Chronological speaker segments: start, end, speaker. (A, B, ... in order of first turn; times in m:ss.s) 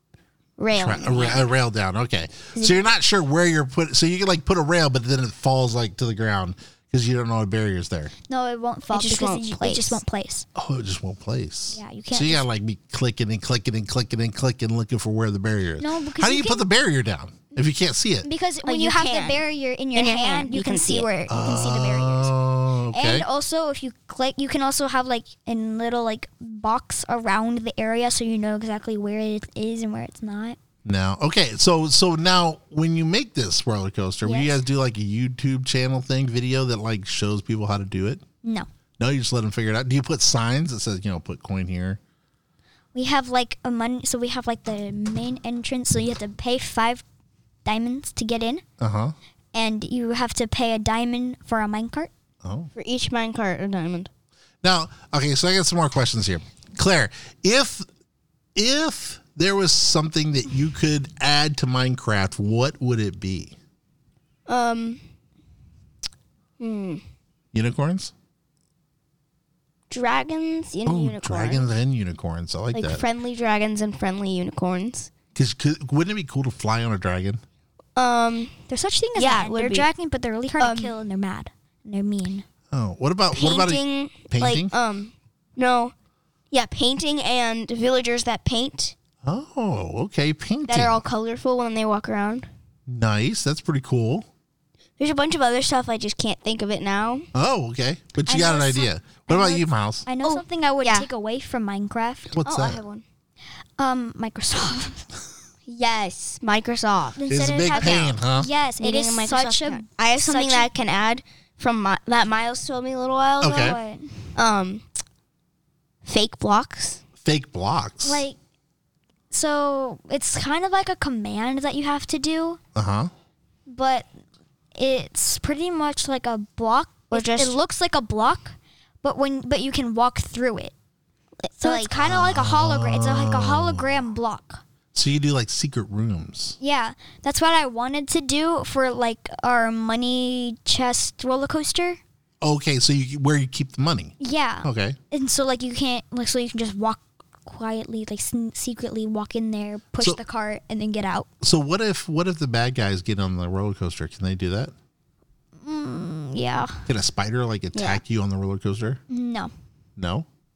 0:00.6-0:01.5 A
0:00.7-0:08.1 B
0:02.6-0:02.9 A
0:08.3-0:10.5 C
0:08.9-0:10.0 A
0:10.6-0:18.3 B
0:11.7-0:12.5 C
0:15.8-0:16.7 C
0:18.2-0:22.3 C
0:18.6-0:21.1 A
0:21.3-0:23.2 B
0:22.9-0:30.6 C
0:30.8-0:38.2 B
0:34.2-0:34.6 C
0:39.0-0:42.0 B
0:43.0-0:47.0 C
0:47.6-0:48.6 C
0:48.8-0:49.2 B
0:49.5-0:52.1 C
0:52.4-0:52.7 B
0:52.8-0:54.1 A
0:54.6-0:57.9 B
0:58.6-1:03.6 B
1:04.5-1:05.0 A
1:06.6-1:07.0 A
1:07.5-1:08.1 B
1:09.9-1:11.7 A
1:10.9-1:13.0 B
1:12.7-1:15.1 A
1:15.4-1:17.4 B
1:18.0-1:18.6 A
1:18.7-1:22.4 C
1:19.2-1:19.9 A
1:20.6-1:21.0 A
1:22.7-1:24.7 B
1:23.3-1:25.9 A
1:26.5-1:29.0 A
1:29.2-1:31.0 B
1:30.7-1:32.5 A
1:32.9-1:34.2 B
1:35.0-1:37.3 A
1:37.3-1:40.1 B
1:38.2-1:42.3 C
1:40.2-1:41.1 A
1:42.3-1:42.8 B
1:42.4-1:43.0 A
1:43.8-1:45.1 C
1:45.7-1:48.2 A
1:47.2-1:50.7 C
1:47.3-1:48.5 B
1:48.8-1:53.8 A
1:53.4-1:53.8 B
1:53.5-1:54.1 C
1:54.4-1:54.8 A
1:56.0-1:57.0 A
1:57.2-1:58.2 B
1:58.0-1:58.4 C
1:59.3-2:02.6 C
2:02.8-2:03.1 B
2:03.7-2:04.1 C
2:04.8-2:10.7 C
2:07.1-2:07.6 A
2:11.4-2:12.0 A
2:11.6-2:14.6 C
2:11.9-2:14.0 B
2:14.9-2:16.6 B
2:16.6-2:22.0 C
2:22.4-2:25.0 B
2:24.2-2:31.3 C
2:31.4-2:34.7 B
2:35.6-2:36.8 C
2:36.9-2:39.0 B
2:37.8-2:38.0 A
2:39.1-2:39.5 C
2:40.0-2:40.2 B